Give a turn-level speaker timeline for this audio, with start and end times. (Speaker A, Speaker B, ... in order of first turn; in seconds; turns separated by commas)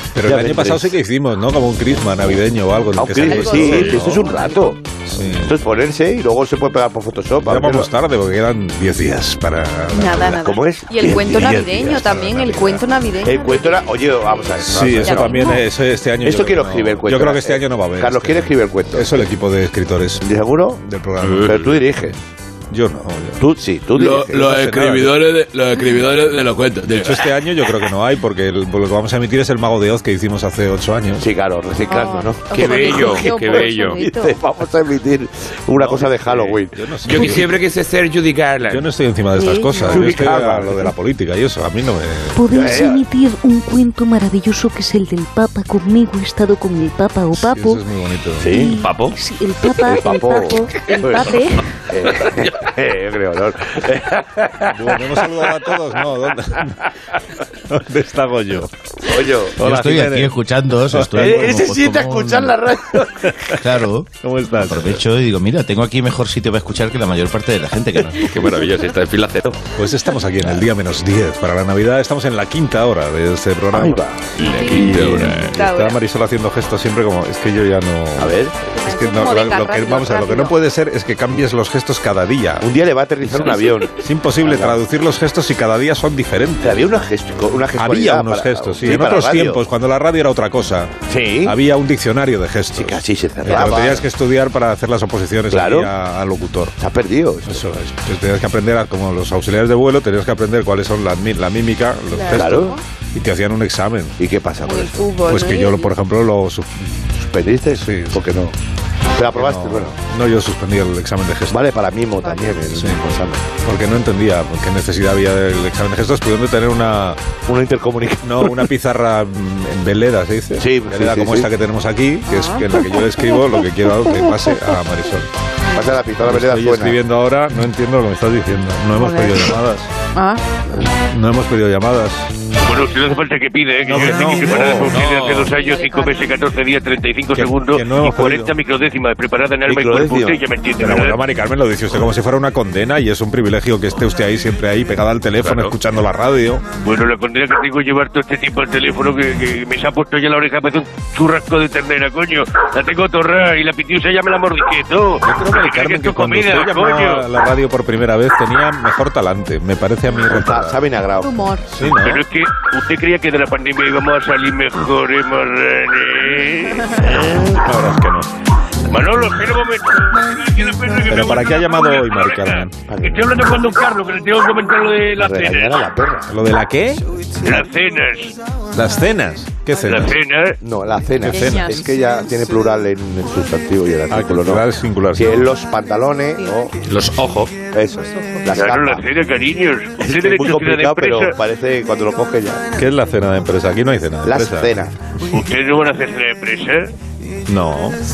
Speaker A: 0.1-4.3, Speaker B: 0.2-0.9, Speaker B: 3.0-4.8, Speaker C: 3.2-4.5, Speaker A: 5.1-5.5, Speaker B: 5.5-7.9, Speaker A: 7.4-10.5, Speaker C: 9.9-13.7, Speaker B: 10.4-12.2, Speaker A: 11.3-12.8, Speaker B: 13.2-15.4, Speaker A: 14.6-22.1, Speaker C: 15.1-15.6, Speaker B: 16.2-19.3, Speaker B: 20.2-20.8, Speaker B: 21.4-22.1, Speaker A: 22.7-23.4, Speaker B: 23.4-24.5, Speaker D: 24.0-27.1, Speaker A: 24.3-25.2, Speaker A: 27.0-31.3, Speaker B: 31.2-37.2, Speaker C: 31.9-34.4, Speaker D: 32.5-34.0, Speaker E: 32.8-33.9, Speaker A: 35.8-37.6, Speaker E: 37.1-38.8, Speaker D: 37.1-38.6, Speaker A: 38.7-42.5, Speaker C: 39.4-40.1, Speaker B: 39.9-40.8, Speaker F: 42.5-47.6, Speaker B: 42.5-43.0, Speaker C: 46.7-47.8, Speaker A: 47.3-48.5, Speaker B: 48.4-48.9, Speaker F: 49.2-51.2, Speaker C: 49.6-51.6, Speaker B: 49.8-55.3, Speaker A: 54.7-56.7, Speaker A: 57.7-58.7, Speaker B: 59.1-59.7, Speaker A: 59.6-61.7, Speaker G: 59.6-62.6, Speaker B: 61.1-63.3, Speaker G: 63.6-64.1, Speaker A: 64.2-65.0, Speaker G: 64.7-68.3, Speaker A: 69.8-74.0, Speaker B: 73.7-74.2, Speaker D: 74.5-75.3, Speaker C: 74.5-76.0, Speaker A: 74.7-82.7, Speaker B: 74.8-75.3, Speaker B: 78.2-78.7, Speaker C: 78.8-80.5, Speaker B: 82.6-83.9, Speaker A: 83.3-86.9, Speaker B: 84.4-84.8, Speaker B: 86.6-89.6, Speaker A: 87.8-90.9, Speaker B: 91.1-91.5, Speaker A: 91.4-96.8, Speaker B: 92.8-94.0, Speaker B: 95.5-95.9, Speaker B: 96.8-97.7, Speaker A: 97.5-104.2, Speaker C: 102.1-102.8, Speaker B: 102.3-102.8, Speaker B: 104.2-105.1, Speaker C: 104.7-105.9, Speaker A: 105.2-107.0, Speaker B: 107.2-108.5, Speaker A: 107.8-108.2, Speaker B: 109.1-109.9, Speaker A: 109.3-111.6, Speaker B: 111.5-113.5, Speaker A: 112.7-113.0, Speaker A: 113.6-117.2, Speaker B: 117.5-118.5, Speaker A: 118.2-125.3, Speaker B: 120.6-121.5, Speaker C: 122.3-122.7, Speaker B: 125.7-127.0, Speaker A: 126.3-129.9, Speaker C: 129.0-129.5, Speaker C: 130.2-130.4, Speaker A: 131.1-132.4, Speaker H: 132.6-141.2, Speaker A: 133.8-134.9, Speaker B: 134.5-134.9, Speaker C: 135.6-136.4, Speaker A: 137.3-138.5, Speaker B: 139.7-140.4, Speaker A: 140.8-146.6, Speaker E: 145.4-145.7, Speaker H: 146.8-157.2, Speaker A: 155.2-160.8, Speaker B: 160.3-161.3, Speaker C: 161.2-161.6, Speaker A: 161.7-162.2, Speaker H: 161.9-167.3, Speaker A: 167.4-168.3, Speaker H: 168.9-175.9, Speaker A: 171.1-172.8, Speaker B: 172.9-173.3, Speaker B: 175.2-176.3, Speaker A: 176.3-177.0, Speaker H: 177.4-178.3, Speaker A: 178.7-180.2, Speaker H: 179.8-180.6, Speaker B: 180.6-184.6, Speaker A: 181.2-181.8, Speaker C: 181.3-181.9, Speaker A: 184.1-185.5, Speaker B: 185.2-186.7, Speaker E: 186.9-187.5, Speaker B: 187.6-189.1, Speaker H: 188.5-191.4, Speaker B: 190.0-192.7, Speaker A: 192.8-194.8, Speaker B: 194.2-194.9, Speaker H: 195.3-196.9, Speaker A: 197.5-198.0